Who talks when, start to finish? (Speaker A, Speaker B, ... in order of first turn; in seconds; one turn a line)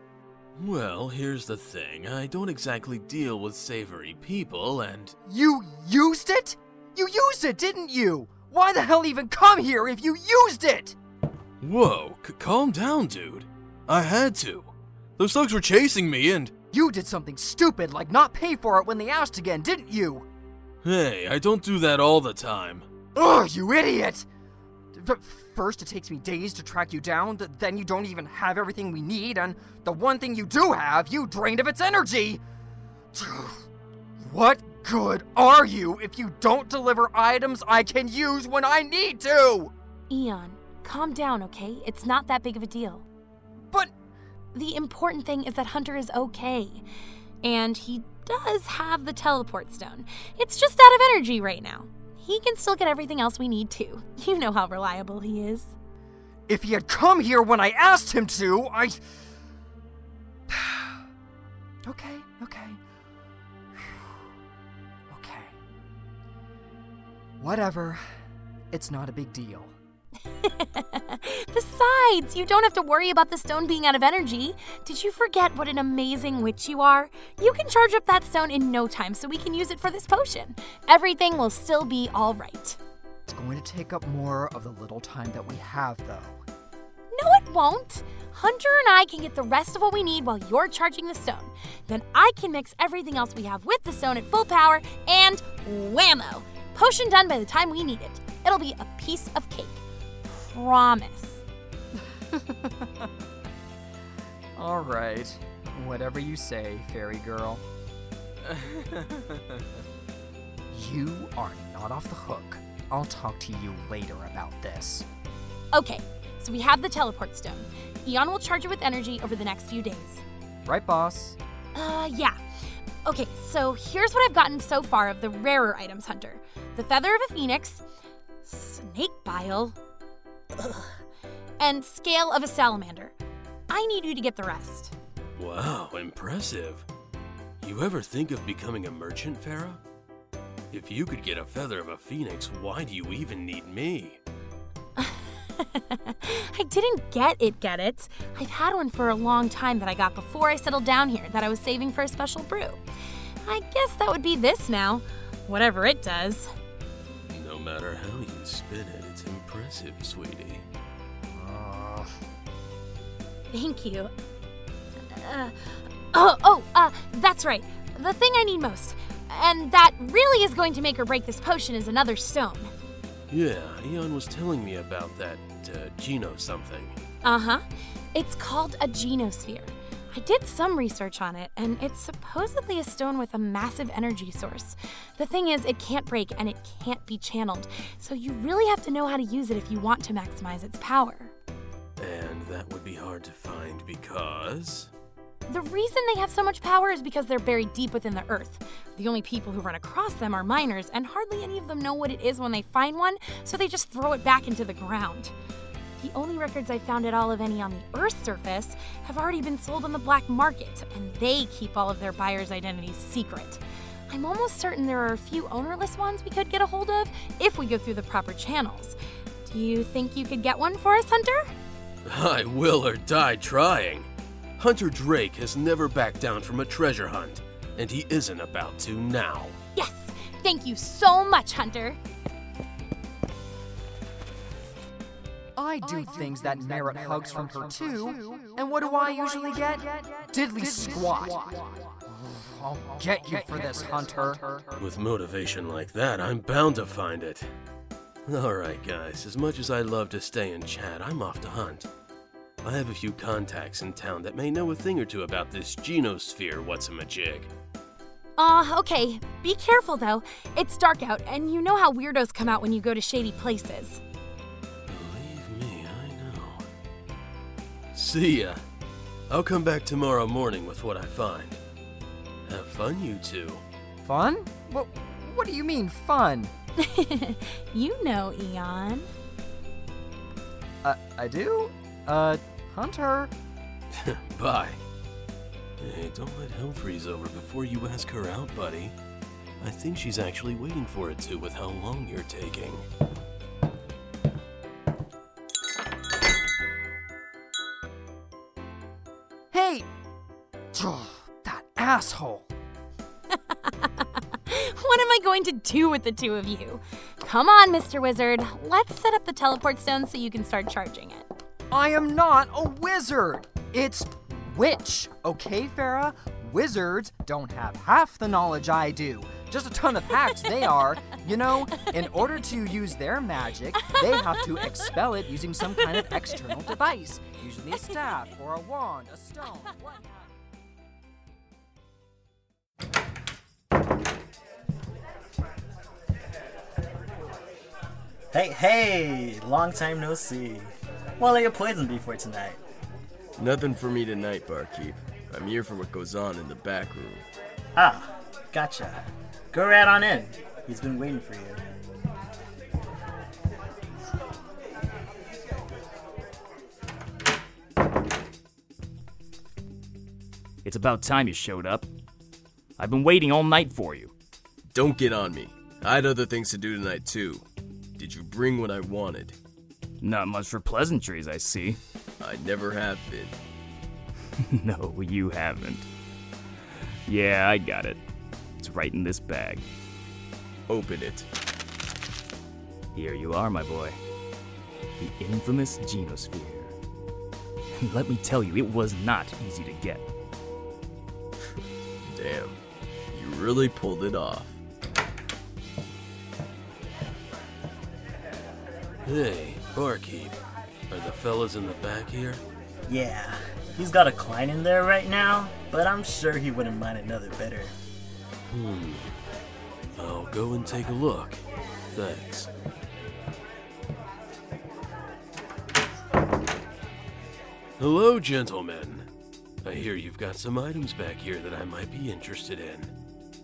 Speaker A: 0.6-5.2
Speaker B: 5.3-11.0
Speaker A: 11.6-16.5
Speaker B: 16.7-20.3
Speaker A: 20.8-22.9
Speaker B: 23.1-24.3
Speaker B: 24.9-32.4
Speaker B: 33.1-33.7
Speaker B: 34.2-39.7
Speaker C: 40.1-43.0
Speaker C: 44.5-46.8
Speaker C: 47.4-55.8
Speaker B: 56.5-59.0
Speaker B: 60.5-61.0
Speaker B: 61.9-62.8
Speaker B: 63.8-64.0
Speaker B: 65.1-65.6
Speaker B: 67.4-68.0
Speaker B: 68.7-69.8
Speaker C: 70.4-82.8
Speaker B: 83.3-86.4
Speaker C: 87.1-101.4
Speaker B: 102.3-103.1
Speaker B: 104.6-107.6
Speaker B: 110.7-115.1
Speaker C: 115.7-120.2
Speaker B: 120.7-121.4
Speaker C: 121.8-127.8
Speaker C: 128.4-129.8
Speaker C: 131.6-133.2
Speaker C: 133.7-134.9
Speaker A: 135.4-136.9
Speaker A: 137.6-139.8
Speaker A: 140.7-144.2
Speaker C: 145.0-152.8
Speaker C: 153.4-156.5
Speaker A: 157.3-160.7
Speaker B: 161.3-162.1
Speaker C: 163.5-164.1
Speaker C: 165.1-172.7
Speaker A: 173.3-177.0
Speaker C: 177.2-191.3
Speaker A: 192.0-194.9
Speaker C: 195.5-205.3
Speaker C: 206.0-221.5
Speaker A: 222.1-229.6
Speaker C: 229.8-232.0
Speaker B: 235.6-244.6
Speaker A: 244.8-247.5
Speaker A: 248.3-251.9
Speaker A: 252.6-257.5
Speaker C: 258.4-264.0
Speaker A: 264.9-266.6
Speaker A: 267.9-268.6
Speaker A: 269.3-271.6
Speaker A: 272.5-273.6
Speaker B: 274.0-276.5
Speaker C: 276.8-279.1
Speaker B: 280.8-283.3
Speaker A: 283.9-284.8
Speaker A: 285.8-289.0
Speaker A: 289.6-292.9
Speaker B: 299.5-299.9
Speaker B: 300.7-302.5
Speaker C: 303.3-311.3
Speaker B: 311.7-330.1
Speaker D: 338.3-342.6
Speaker E: 343.4-347.2
Speaker D: 347.8-351.6
Speaker F: 360.6-361.9
Speaker F: 362.8-364.1
Speaker E: 364.7-367.4
Speaker E: 368.0-369.4
Speaker F: 370.0-371.8
Speaker E: 372.2-373.4
Speaker F: 374.5-375.9
Speaker F: 377.1-378.0
Speaker F: 378.6-379.7
Speaker E: 380.7-381.3
Speaker F: 382.9-384.0
Speaker F: 385.0-386.8
Speaker F: 387.8-390.1
Speaker E: 392.1-392.6
Speaker E: 393.1-394.6
Speaker A: 399.1-400.4
Speaker A: 400.9-402.4
Speaker D: 402.9-407.8
Speaker A: 408.5-409.2
Speaker A: 410.0-411.4
Speaker A: 411.9-412.5
Speaker A: 417.8-419.1
Speaker A: 419.6-422.9